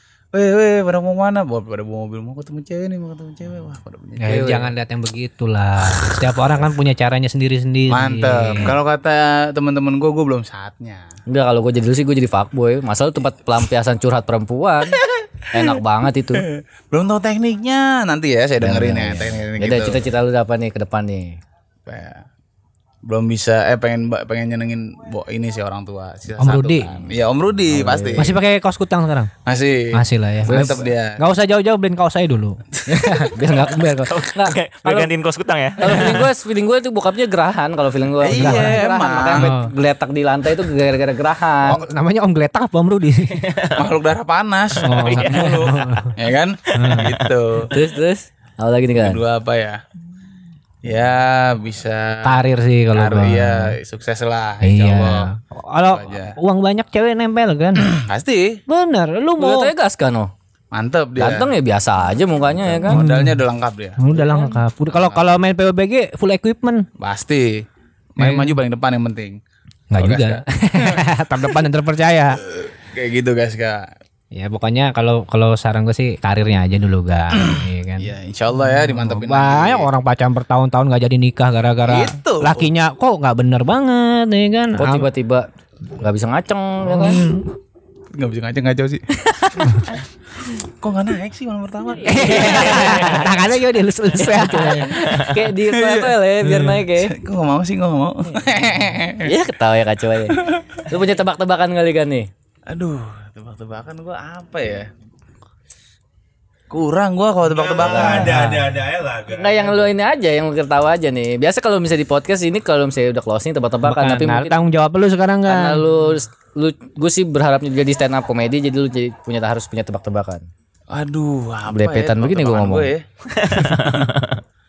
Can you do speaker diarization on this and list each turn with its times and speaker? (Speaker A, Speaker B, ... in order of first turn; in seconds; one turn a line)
Speaker A: 0.3-4.5
Speaker B: 4.2-8.8
Speaker C: 4.3-4.7
Speaker A: 7.9-11.1
Speaker C: 11.3-15.0
Speaker C: 15.5-16.5
Speaker A: 16.3-20.0
Speaker C: 18.6-21.4
Speaker A: 21.9-22.2
Speaker A: 23.1-28.3
Speaker B: 26.4-26.9
Speaker C: 27.7-28.3
Speaker B: 28.2-29.3
Speaker A: 29.4-31.2
Speaker B: 29.9-34.1
Speaker C: 30.4-30.9
Speaker C: 32.9-35.1
Speaker D: 34.1-36.2
Speaker C: 35.8-41.8
Speaker A: 38.2-39.6
Speaker B: 38.4-39.7
Speaker B: 41.7-43.4
Speaker D: 43.3-43.9
Speaker A: 43.8-47.7
Speaker D: 44.8-45.7
Speaker B: 44.8-46.1
Speaker B: 46.8-47.1
Speaker C: 47.6-49.2
Speaker A: 49.0-49.8
Speaker A: 50.8-55.3
Speaker B: 52.2-53.8
Speaker B: 54.6-57.9
Speaker A: 55.9-56.4
Speaker A: 57.9-58.6
Speaker B: 58.7-59.7
Speaker C: 59.4-60.3
Speaker A: 60.7-61.5
Speaker C: 61.2-63.0
Speaker A: 62.6-65.4
Speaker B: 62.9-63.4
Speaker B: 64.0-66.9
Speaker A: 67.0-67.7
Speaker A: 68.2-69.4
Speaker B: 68.2-68.5
Speaker B: 69.9-72.4
Speaker A: 70.0-71.7
Speaker A: 72.4-73.9
Speaker B: 74.3-78.1
Speaker A: 77.4-79.9
Speaker B: 78.7-85.1
Speaker A: 81.9-82.7
Speaker C: 84.8-85.5
Speaker C: 86.0-87.2
Speaker B: 86.9-87.5
Speaker A: 88.1-89.0
Speaker A: 90.6-93.3
Speaker B: 92.0-95.0
Speaker C: 92.3-93.2
Speaker C: 94.2-97.2
Speaker D: 94.9-95.3
Speaker A: 95.6-96.2
Speaker B: 96.5-96.8
Speaker A: 96.9-99.3
Speaker C: 99.2-102.3
Speaker A: 102.7-104.9
Speaker A: 106.7-108.3
Speaker E: 107.5-109.9
Speaker C: 107.8-108.4
Speaker B: 108.2-108.7
Speaker C: 109.3-114.6
Speaker B: 113.8-115.8
Speaker C: 115.5-120.5
Speaker A: 120.9-123.0
Speaker C: 121.7-122.9
Speaker D: 123.3-124.4